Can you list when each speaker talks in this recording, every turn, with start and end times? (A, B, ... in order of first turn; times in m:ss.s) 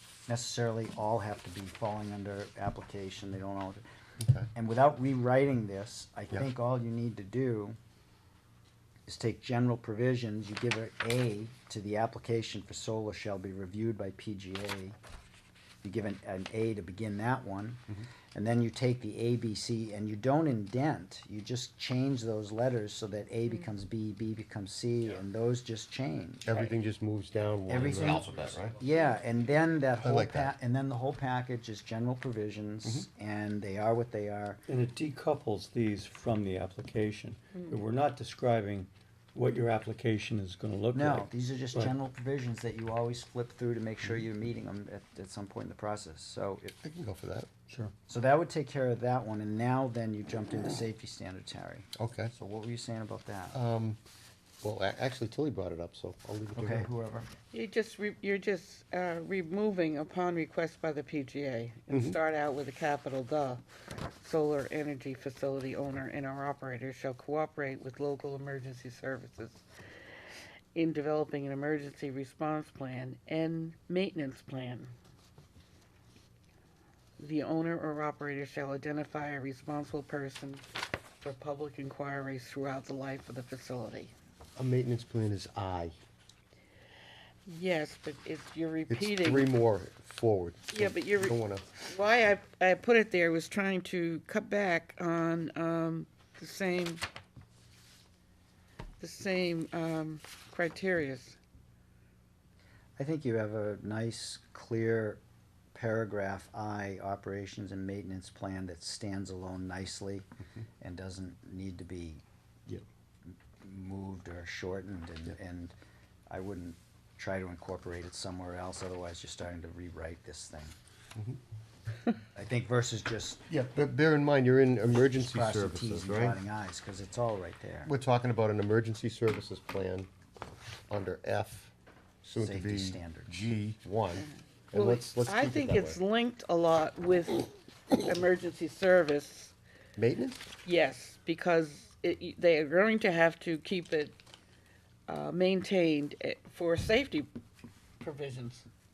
0:00.3-0:03.8 A
0:04.5-0:07.8 A
0:09.1-0:15.0 A
0:15.8-0:26.7 A
0:26.4-0:28.8 B
0:27.7-0:34.6 A
0:30.0-0:30.5 B
0:34.7-0:41.9 C
0:40.9-0:46.8 A
0:46.8-0:47.5 B
0:48.1-0:53.6 A
0:52.0-0:52.3 B
0:53.5-0:54.0 B
0:54.6-0:56.9 B
0:56.5-0:57.3 A
0:57.5-1:03.6 D
1:01.9-1:02.2 B
1:04.2-1:09.7 D
1:10.7-1:14.9 D
1:17.2-1:20.6 D
1:21.2-1:24.1 D
1:24.6-1:25.9 B
1:27.5-1:29.5 D
1:28.9-1:31.7 B
1:30.7-1:37.0 D
1:39.0-1:41.4 D
1:43.0-1:45.2 A
1:45.7-1:50.3 A
1:50.8-1:52.2 A
1:53.3-1:55.7 A
1:56.3-2:00.7 A
2:02.4-2:03.4 A
2:03.5-2:06.4 B
2:04.9-2:07.9 A
2:07.8-2:10.1 B
2:10.9-2:16.0 B
2:12.4-2:13.4 A
2:14.2-2:19.5 D
2:20.0-2:20.4 B
2:20.6-2:24.2 D
2:25.1-2:27.3 D
2:28.0-2:28.6 D